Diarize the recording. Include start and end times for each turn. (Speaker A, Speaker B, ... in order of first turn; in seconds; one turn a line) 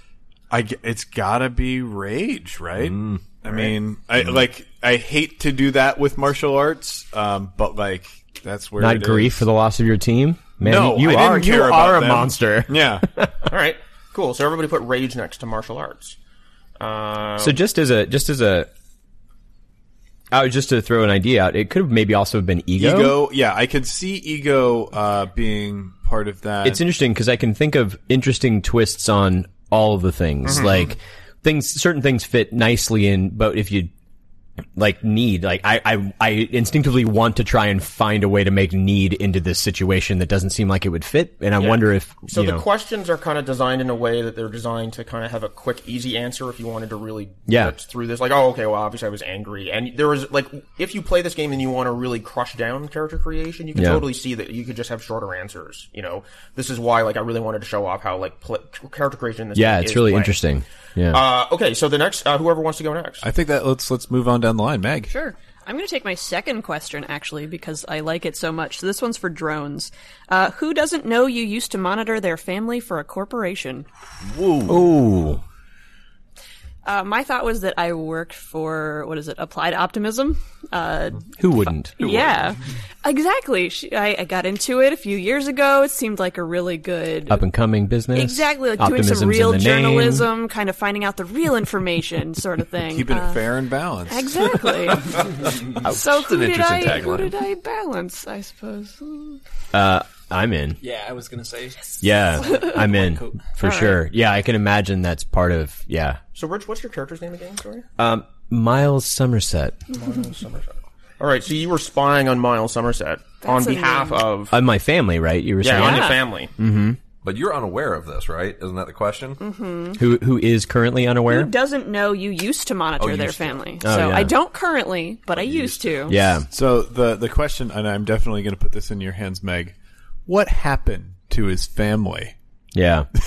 Speaker A: 0.5-9.4
Speaker B: 2.8-3.2
Speaker C: 8.8-13.3
Speaker A: 10.6-13.1
Speaker D: 13.4-16.2
Speaker D: 16.8-17.6
Speaker C: 17.4-18.7
Speaker C: 20.3-23.2
Speaker A: 22.8-26.8
Speaker C: 26.6-33.9
Speaker D: 30.4-30.9
Speaker C: 34.8-42.6
Speaker D: 41.6-60.4
Speaker C: 47.5-47.7
Speaker C: 53.7-54.0
Speaker C: 59.5-61.2
Speaker D: 61.1-63.3
Speaker A: 63.2-65.1
Speaker E: 65.1-73.8
Speaker B: 74.2-74.9
Speaker C: 74.7-75.4
Speaker E: 76.8-81.4
Speaker C: 81.4-81.9
Speaker E: 82.0-87.4
Speaker B: 82.0-82.3
Speaker C: 87.3-90.2
Speaker E: 88.1-93.4
Speaker A: 92.9-94.6
Speaker E: 94.1-95.3
Speaker B: 94.9-97.3
Speaker F: 95.5-95.8
Speaker E: 95.8-99.4
Speaker C: 99.7-100.8
Speaker F: 100.8-103.6
Speaker C: 102.0-106.2
Speaker E: 102.4-102.8
Speaker E: 103.6-104.0
Speaker D: 106.3-107.8
Speaker C: 108.0-109.8
Speaker D: 109.9-114.6
Speaker E: 113.4-114.2
Speaker C: 114.5-117.0
Speaker D: 115.6-116.5
Speaker E: 115.7-116.2
Speaker B: 117.2-119.4
Speaker E: 119.4-120.0
Speaker C: 120.0-121.5
Speaker E: 121.3-126.2
Speaker B: 123.0-123.6
Speaker C: 123.8-124.3
Speaker B: 125.3-126.2
Speaker C: 126.1-126.5
Speaker A: 126.5-129.7
Speaker A: 130.2-132.3
Speaker C: 132.7-133.1